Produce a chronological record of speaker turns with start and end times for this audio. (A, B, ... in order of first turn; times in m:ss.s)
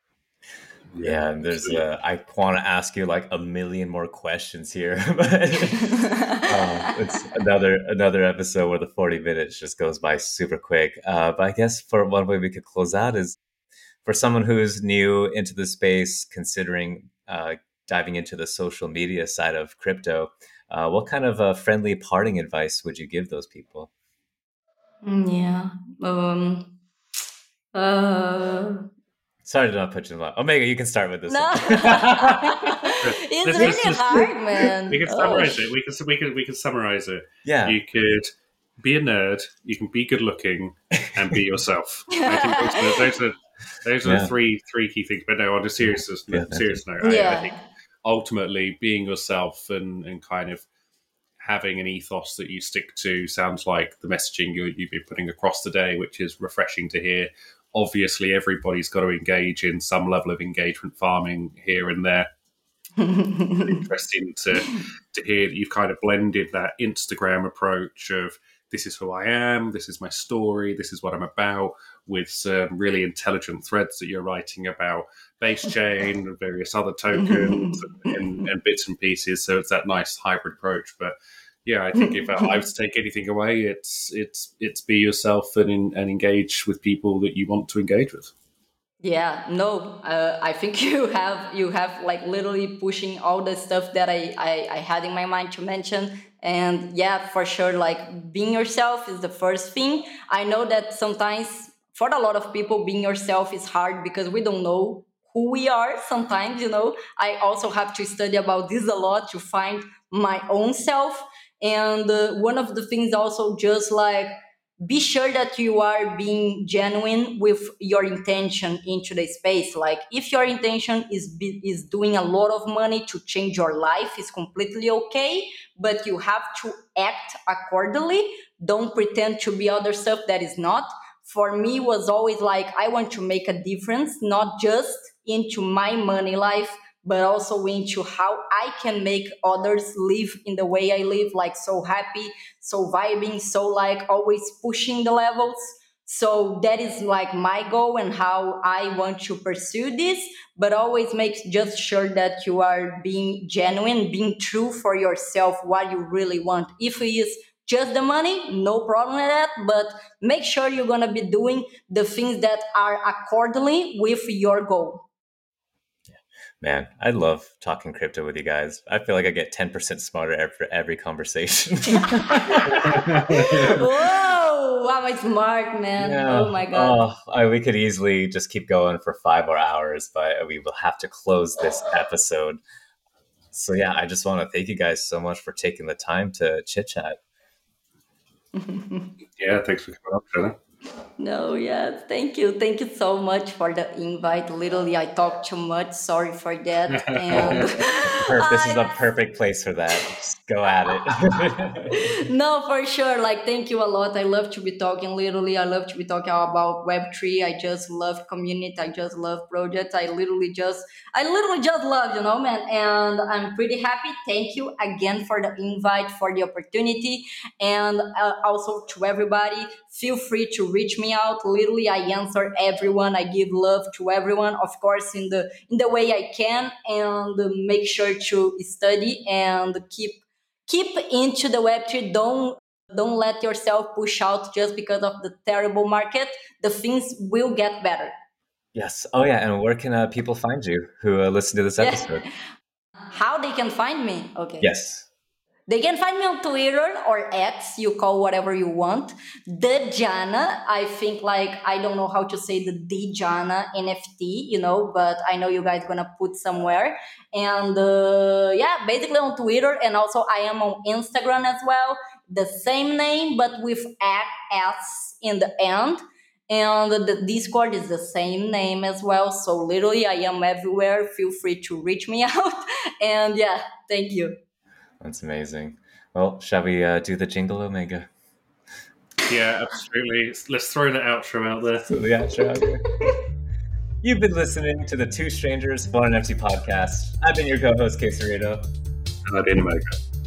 0:00.9-0:01.8 A
0:01.0-0:13.4 B
0:05.9-0:06.5 C
0:14.0-0:23.9 B
0:25.0-0:26.8 C
0:27.7-0:28.9 C
0:29.4-0:32.9 B
0:31.3-0:35.6 C
0:33.0-0:38.3 A
0:37.4-0:37.8 B
0:38.8-0:50.6 A
0:42.1-0:43.1 C
0:44.0-0:44.3 B
0:45.9-0:46.8 B
0:47.0-0:47.6 C
0:51.4-1:02.3 A
1:03.0-1:03.8 C
1:03.6-1:28.3 A
1:17.2-1:17.8 C
1:22.0-1:22.5 C
1:29.0-1:54.3 C
1:54.8-2:45.1 C
2:46.6-2:53.8 B
2:52.0-2:57.0 C
2:52.9-2:53.8 A
2:56.0-3:02.6 B
3:03.5-3:07.2 B
3:08.6-3:09.1 C
3:09.4-3:10.6 A
3:11.2-3:18.9 C
3:17.0-3:17.7 A
3:17.4-3:22.0 B
3:21.9-3:58.1 C
3:58.7-4:02.2 B
4:01.8-4:02.4 C
4:03.1-4:04.7 C
4:04.6-4:05.1 B
4:05.7-4:34.4 C
4:35.0-4:38.1 B
4:39.2-4:42.0 A
4:41.9-4:42.9 B
4:44.0-4:48.7 B
4:49.3-4:50.0 A